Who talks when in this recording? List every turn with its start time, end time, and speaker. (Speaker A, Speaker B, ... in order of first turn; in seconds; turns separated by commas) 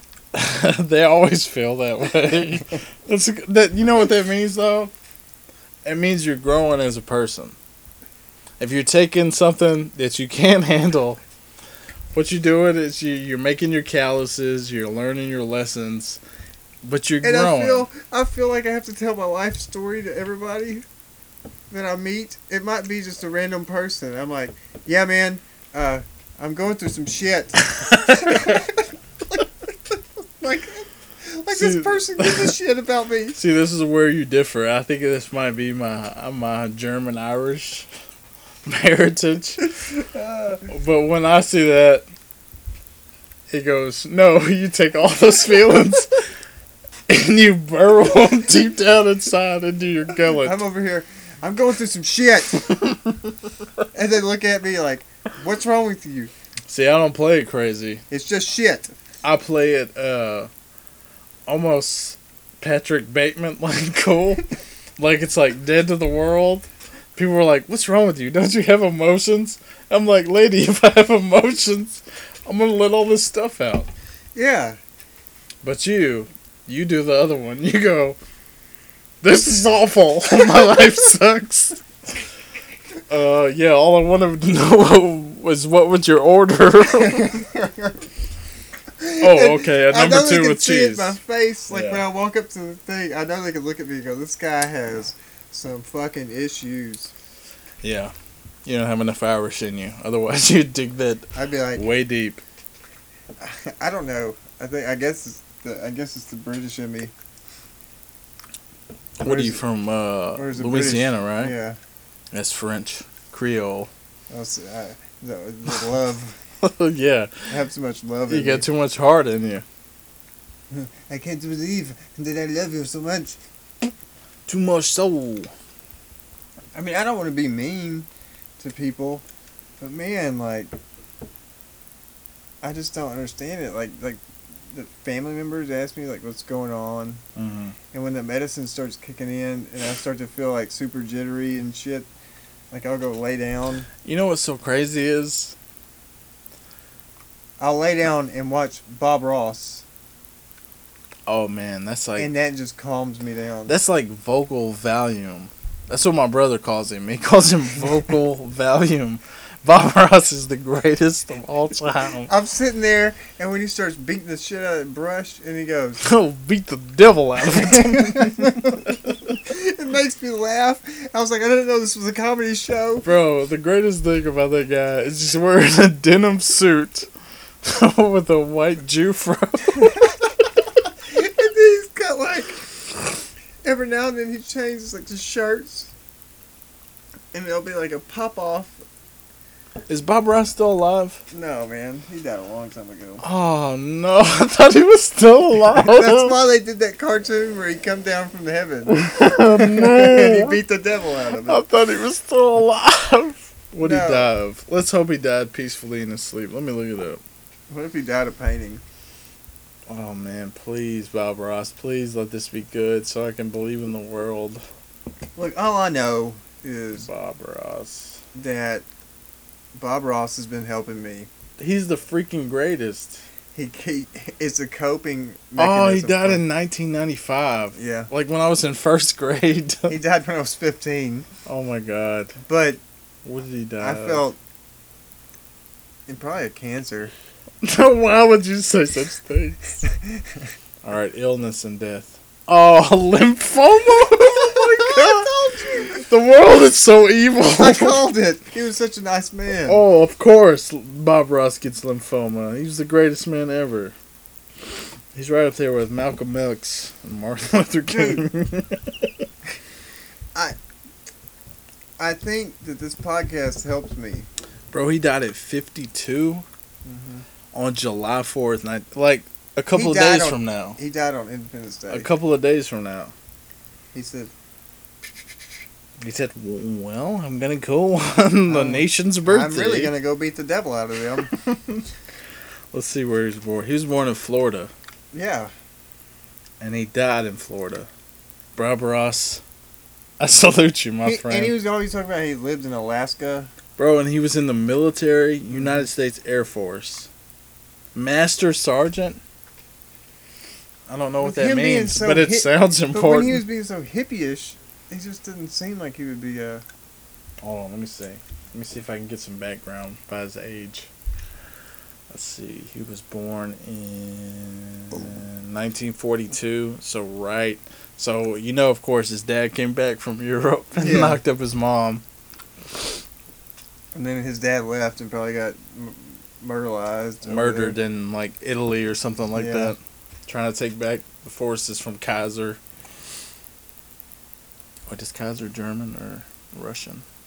Speaker A: 0.3-4.9, Speaker A: 5.8-7.5, Speaker A: 8.6-11.2, Speaker A: 12.1-16.2, Speaker A: 16.8-17.9, Speaker B: 17.2-20.8, Speaker B: 21.7-33.4, Speaker A: 27.7-28.6, Speaker A: 31.5-32.5, Speaker A: 33.4-37.9, Speaker A: 38.6-39.6, Speaker B: 39.8-40.7, Speaker A: 40.7-42.0, Speaker A: 43.5-46.3, Speaker A: 47.1-50.6, Speaker B: 50.3-52.7, Speaker B: 53.9-56.3, Speaker A: 56.7-58.0, Speaker B: 58.1-58.9, Speaker A: 59.2-60.5, Speaker A: 61.5-64.5, Speaker A: 65.0-73.9, Speaker B: 74.3-74.8, Speaker A: 75.6-78.2, Speaker A: 79.2-81.8, Speaker A: 83.1-87.4, Speaker B: 87.0-88.0, Speaker B: 89.0-97.1, Speaker A: 89.2-92.0, Speaker A: 97.8-98.1, Speaker A: 98.6-102.4, Speaker B: 101.3-101.8, Speaker B: 103.4-107.1, Speaker A: 109.2-111.5, Speaker B: 109.2-109.6, Speaker B: 110.3-111.8, Speaker A: 112.3-113.9, Speaker B: 114.3-116.4, Speaker A: 116.6-117.5, Speaker B: 117.5-118.7, Speaker A: 118.3-119.6, Speaker B: 120.7-123.4, Speaker A: 124.5-125.5, Speaker B: 126.7-128.1, Speaker B: 128.6-129.2, Speaker B: 129.8-130.8, Speaker B: 132.6-134.2, Speaker B: 134.7-137.2, Speaker A: 137.3-137.7, Speaker B: 137.9-142.1, Speaker B: 142.7-143.9, Speaker A: 144.0-145.5, Speaker B: 147.6-149.8, Speaker A: 151.3-152.3, Speaker B: 152.2-153.8, Speaker A: 153.7-162.3, Speaker B: 162.3-166.0, Speaker A: 166.0-169.3, Speaker B: 167.5-173.1, Speaker A: 173.0-177.1, Speaker A: 177.6-180.1, Speaker B: 181.1-182.6, Speaker B: 183.6-185.9, Speaker B: 187.3-188.8, Speaker A: 189.9-191.2, Speaker B: 191.3-193.2, Speaker A: 193.2-196.3, Speaker B: 195.8-201.6, Speaker A: 198.9-200.6, Speaker A: 201.4-207.2, Speaker B: 203.8-204.3, Speaker B: 207.7-208.8, Speaker A: 209.9-214.6, Speaker B: 215.3-217.1, Speaker A: 217.0-218.2, Speaker B: 218.3-218.8, Speaker B: 219.7-221.3, Speaker A: 221.6-223.2, Speaker B: 223.5-226.4, Speaker A: 225.6-230.0, Speaker B: 227.8-228.1, Speaker B: 229.9-231.3, Speaker A: 231.4-232.3, Speaker B: 232.4-232.8, Speaker A: 233.2-234.2, Speaker B: 233.8-234.4, Speaker B: 236.1-237.1, Speaker A: 237.6-239.8, Speaker A: 240.8-245.3, Speaker B: 244.3-246.0, Speaker A: 245.9-248.0, Speaker B: 247.5-249.8, Speaker A: 249.7-253.9, Speaker A: 255.1-259.2, Speaker B: 257.9-258.2, Speaker B: 262.0-264.3, Speaker A: 264.7-266.4, Speaker B: 266.8-267.2, Speaker A: 267.5-270.8, Speaker B: 269.7-272.1, Speaker A: 271.9-273.1, Speaker B: 273.9-274.3, Speaker A: 276.0-279.9, Speaker B: 278.5-281.3, Speaker A: 281.3-281.9, Speaker A: 282.7-284.7, Speaker B: 285.1-285.5, Speaker A: 286.6-287.9, Speaker A: 288.5-289.4, Speaker A: 290.2-291.5, Speaker B: 291.0-293.5, Speaker A: 293.8-297.1, Speaker B: 295.5-295.8, Speaker A: 297.9-299.2, Speaker A: 300.9-303.4, Speaker B: 301.2-306.6, Speaker A: 307.4-310.9, Speaker A: 312.1-322.0, Speaker B: 320.8-321.2, Speaker B: 323.9-327.8, Speaker A: 327.2-332.6, Speaker B: 329.3-329.7, Speaker A: 334.9-337.0